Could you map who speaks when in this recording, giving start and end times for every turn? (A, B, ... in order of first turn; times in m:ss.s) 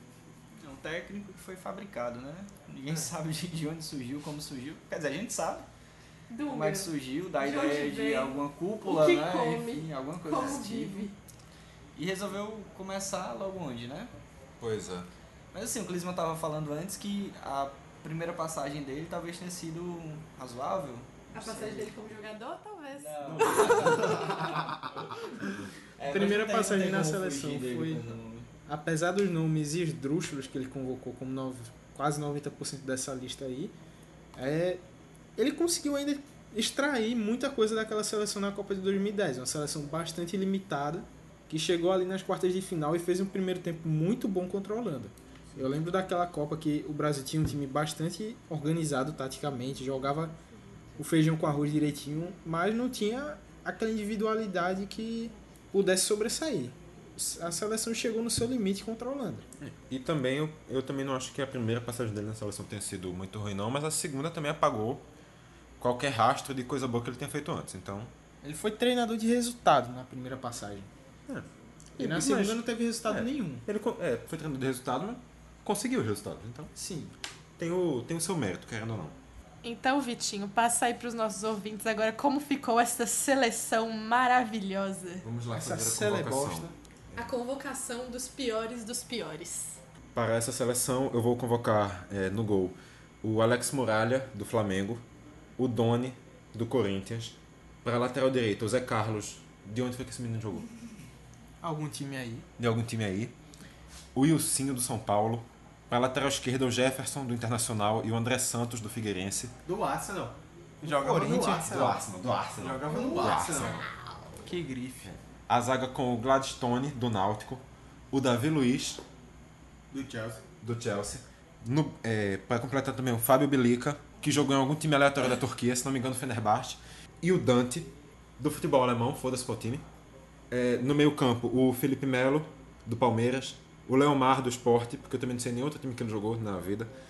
0:00.6-0:05.7 A
0:06.3-0:11.1 B
0:06.5-0:11.1 A
0:11.9-0:14.1 A
0:14.6-0:15.1 C
0:15.5-0:21.9 A
0:21.3-0:24.7 B
0:22.9-0:28.5 A
0:23.2-0:24.6 C
0:26.1-0:28.0 D
0:28.7-0:33.7 D
0:34.4-0:34.8 D
0:35.4-0:50.4 D
0:51.0-0:59.4 D
0:59.6-1:05.0 C
1:05.8-1:08.1 C
1:08.4-1:10.9 D
1:11.3-1:16.7 C
1:12.0-1:13.6 D
1:16.7-1:17.1 D
1:17.6-1:19.2 C
1:19.6-1:25.2 B
1:25.2-1:27.2 C
1:25.5-1:26.7 D
1:27.1-1:29.8 B
1:30.1-1:35.0 C
1:35.6-1:40.7 C
1:41.6-1:42.5 D
1:42.6-1:43.3 C
1:44.1-1:49.6 C
1:49.6-1:52.0 E
1:50.8-1:51.9 D
1:51.4-1:54.5 C
1:52.6-1:53.8 E
1:54.4-1:55.1 D
1:55.0-1:59.0 C
1:59.9-2:00.4 E
2:00.6-2:09.8 C
2:10.5-2:16.9 C